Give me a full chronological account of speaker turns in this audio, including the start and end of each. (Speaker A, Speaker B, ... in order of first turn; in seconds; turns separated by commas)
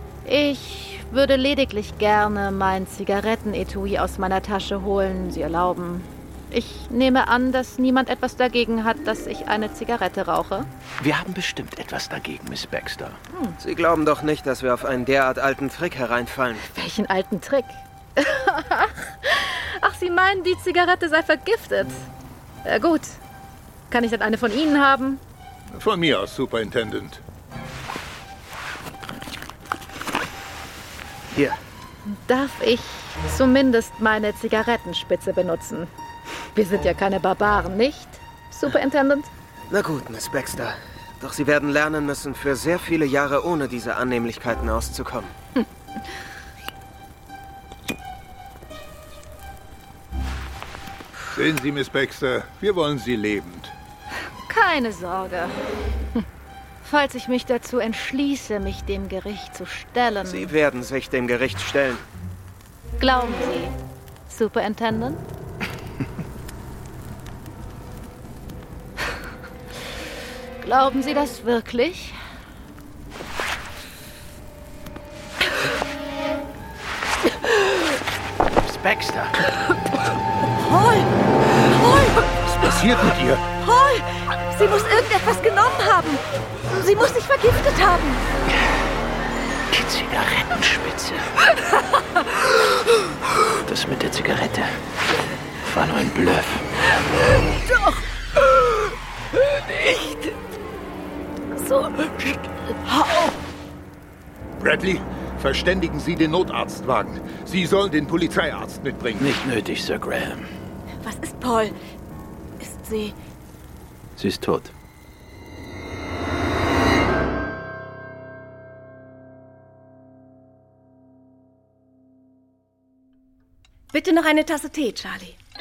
Speaker A: 0.2-10.7, Speaker B: 11.0-13.2, Speaker C: 13.6-16.7, Speaker A: 16.7-22.1, Speaker A: 22.6-23.2, Speaker A: 23.9-25.2, Speaker D: 25.7-27.2, Speaker A: 32.0-35.9, Speaker A: 36.5-39.3, Speaker C: 39.7-45.4, Speaker D: 51.3-53.8, Speaker A: 54.5-55.6, Speaker A: 56.8-60.5, Speaker C: 60.2-62.1, Speaker A: 63.0-63.8, Speaker A: 64.3-65.2, Speaker A: 70.6-72.2, Speaker B: 78.6-79.5, Speaker E: 80.6-81.1, Speaker E: 81.7-82.8, Speaker D: 82.6-83.4, Speaker E: 83.6-88.3, Speaker B: 88.5-88.9, Speaker B: 89.7-91.3, Speaker B: 93.4-94.8, Speaker B: 95.6-96.7, Speaker A: 97.5-98.6, Speaker A: 99.7-100.3, Speaker A: 101.6-102.2, Speaker A: 102.9-103.3, Speaker D: 104.6-109.5, Speaker B: 109.2-110.5, Speaker E: 111.0-111.8, Speaker E: 112.6-113.2, Speaker B: 114.2-114.7, Speaker E: 123.9-125.4